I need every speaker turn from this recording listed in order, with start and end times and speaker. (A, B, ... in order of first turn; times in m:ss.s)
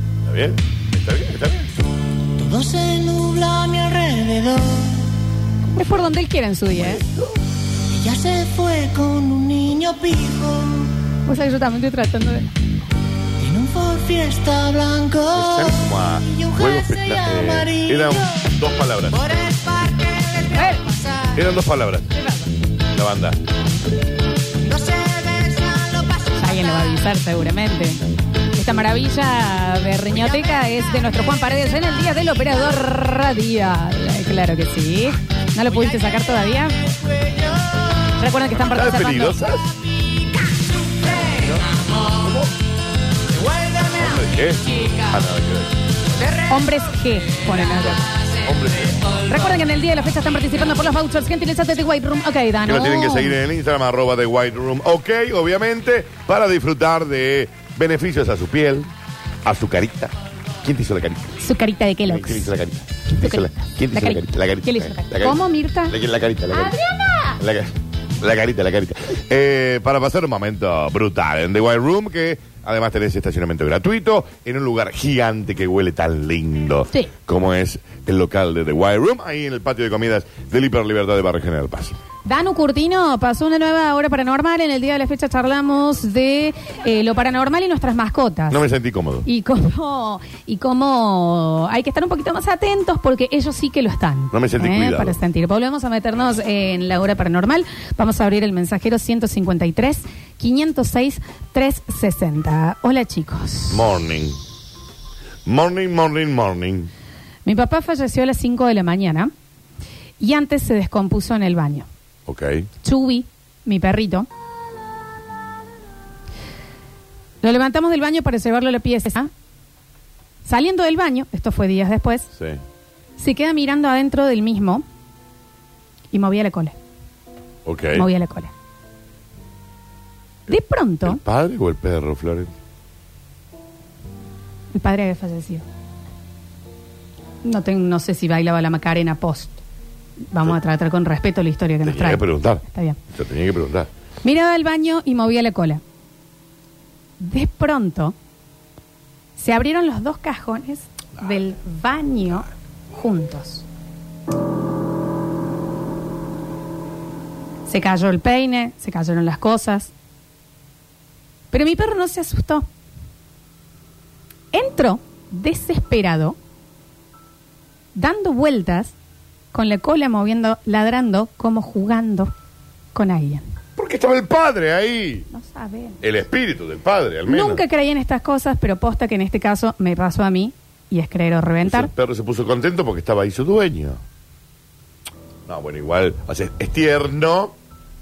0:00.2-0:01.7 A
0:02.4-0:05.0 B
0:05.7-0:07.0 C
0:06.7-0:07.3 A
0:07.9-0:10.9 B
0:11.3-0:12.5 C
0:13.4-0:18.5 B
0:15.4-0:19.2 A
0:19.1-0:21.4 B
0:20.5-0:20.8 C
0:21.3-0:22.1 A
0:22.1-0:22.5 C
0:22.9-0:23.4 A
0:24.6-0:27.0 B
0:26.4-0:28.0 C
0:28.6-0:36.8 C
0:30.2-0:31.2 B
0:38.2-0:39.4 C
0:38.5-0:39.6 A
0:41.4-0:42.5 A
0:44.0-0:45.7 A
0:46.5-0:48.0 C
0:48.4-0:48.9 A
0:49.3-0:53.4 C
0:52.6-0:58.9 A
0:59.4-1:01.4 A
1:01.4-1:02.5 C
1:02.1-1:06.7 A
1:03.2-1:05.9 C
1:06.5-1:07.4 C
1:07.4-1:22.0 A
1:22.2-1:28.6 C
1:28.5-1:29.2 A
1:29.2-1:43.8 C
1:34.3-1:35.2 A
1:43.7-1:44.4 A
1:45.4-1:46.9 A
1:47.4-1:49.3 C
1:50.2-1:51.9 C
1:52.2-1:52.7 A
1:52.8-1:54.3 C
1:57.4-1:59.3 C
2:00.4-2:02.3 C
2:02.3-2:02.6 A
2:03.2-2:04.8 C
2:06.1-2:06.7 C
2:07.6-2:08.1 A
2:07.9-2:08.5 C
2:10.5-2:11.2 C
2:11.0-2:12.5 A
2:14.7-2:15.6 C
2:17.4-2:19.6 C
2:20.3-2:23.0 C
2:21.8-2:23.9 A
2:24.2-2:25.8 C
2:27.2-2:28.1 C
2:29.4-2:33.6 C
2:37.7-2:39.9 C
2:41.5-2:42.7 C
2:44.5-2:46.4 C
2:47.9-2:48.9 C
2:49.5-2:52.3 C
2:52.9-2:53.4 C
2:53.8-2:55.3 A
2:55.3-2:56.0 C
2:56.0-2:57.6 A
2:57.3-3:01.9 C
3:01.6-3:04.0 A
3:05.5-3:07.5 A